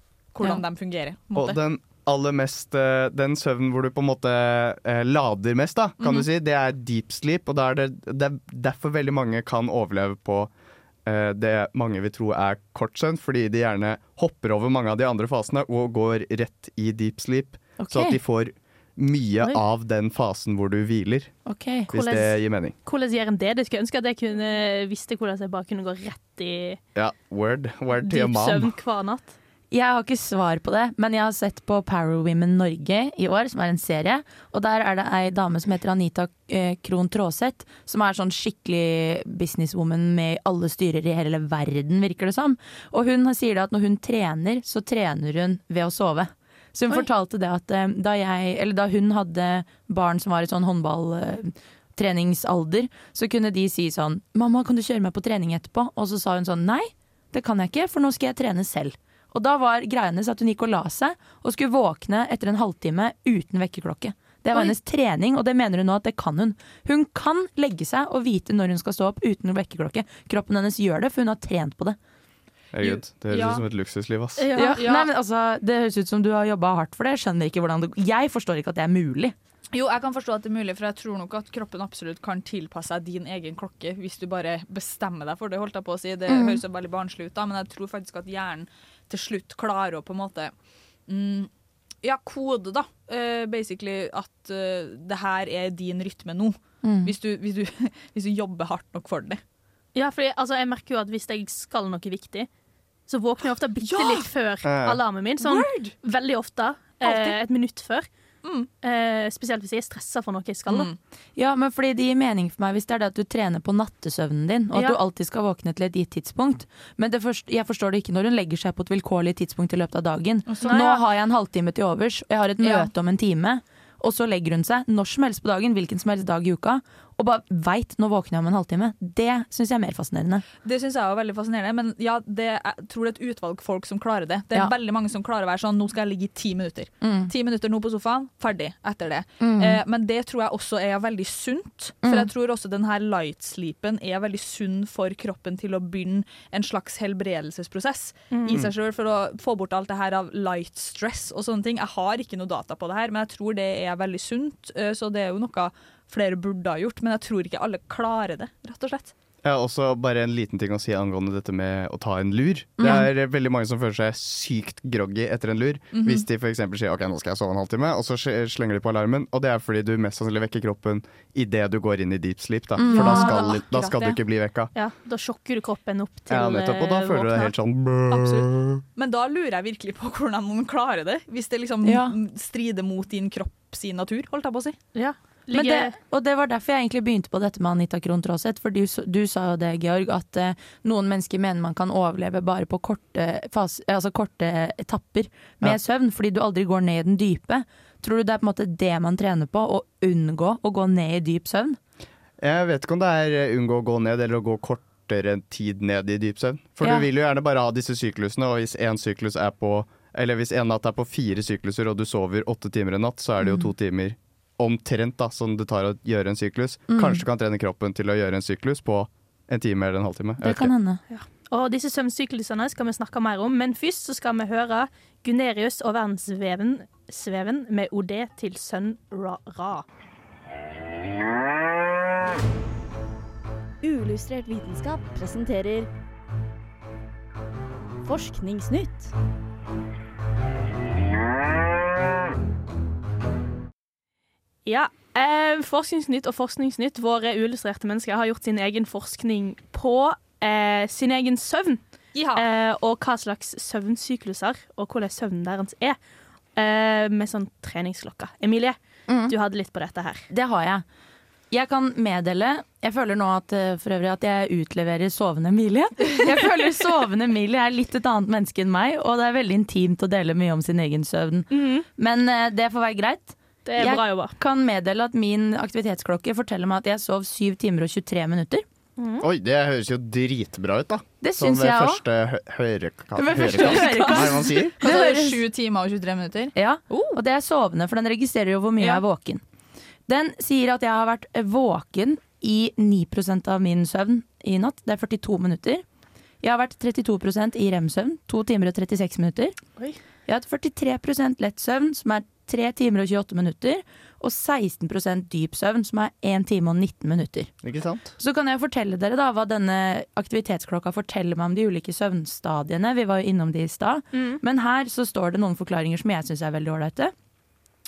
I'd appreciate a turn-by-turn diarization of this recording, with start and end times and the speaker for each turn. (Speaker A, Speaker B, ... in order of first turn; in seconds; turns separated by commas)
Speaker A: 0.3-1.6, Speaker B: 1.4-10.5, Speaker A: 6.0-6.3, Speaker B: 11.1-21.4, Speaker C: 17.8-18.2, Speaker C: 21.5-21.9, Speaker B: 21.9-22.8, Speaker D: 21.9-26.8, Speaker B: 26.9-28.7, Speaker D: 28.0-29.4, Speaker C: 29.7-72.0, Speaker B: 72.7-74.5, Speaker A: 72.8-73.5, Speaker D: 74.4-75.0, Speaker C: 74.5-79.3, Speaker A: 79.7-90.5, Speaker C: 86.3-86.6, Speaker A: 91.1-91.5, Speaker A: 92.0-99.4, Speaker C: 96.8-97.1, Speaker D: 100.0-102.5, Speaker D: 103.1-108.1, Speaker A: 103.8-104.3, Speaker B: 104.6-105.0, Speaker A: 105.4-106.0, Speaker A: 107.0-107.4, Speaker A: 108.4-108.7, Speaker D: 108.8-110.9, Speaker A: 110.7-111.0, Speaker C: 111.4-130.4, Speaker D: 114.7-115.0, Speaker A: 120.5-120.8, Speaker D: 120.6-121.0, Speaker A: 122.6-122.9, Speaker A: 130.6-159.1, Speaker C: 137.0-137.3, Speaker C: 139.4-139.8, Speaker C: 142.0-142.3, Speaker D: 148.3-148.6, Speaker B: 159.4-174.7, Speaker C: 162.8-163.1, Speaker A: 165.9-166.3, Speaker C: 172.8-173.4, Speaker D: 172.9-173.6, Speaker A: 173.7-174.2, Speaker D: 174.8-177.6, Speaker B: 176.3-178.8, Speaker A: 178.2-178.4, Speaker A: 179.0-184.8, Speaker C: 181.8-182.2, Speaker D: 184.9-185.9, Speaker C: 185.5-201.8, Speaker B: 202.4-220.7, Speaker C: 206.8-207.1, Speaker C: 213.4-213.7, Speaker C: 216.9-217.2, Speaker C: 220.4-221.0, Speaker D: 221.1-229.8, Speaker E: 233.8-235.9, Speaker E: 238.0-239.1, Speaker D: 244.7-251.8, Speaker A: 252.2-252.5, Speaker D: 252.4-256.0, Speaker D: 256.6-260.3, Speaker C: 259.1-259.3, Speaker C: 260.3-260.9, Speaker C: 261.5-278.6, Speaker D: 271.5-271.9, Speaker D: 273.6-274.3, Speaker D: 279.0-279.2, Speaker B: 279.2-284.8, Speaker C: 281.2-282.0, Speaker C: 283.1-285.4, Speaker A: 283.7-286.5, Speaker C: 286.6-289.4, Speaker C: 290.1-295.8, Speaker C: 296.4-299.6, Speaker C: 300.3-307.5, Speaker B: 307.6-308.1, Speaker C: 308.2-317.1, Speaker D: 314.1-314.4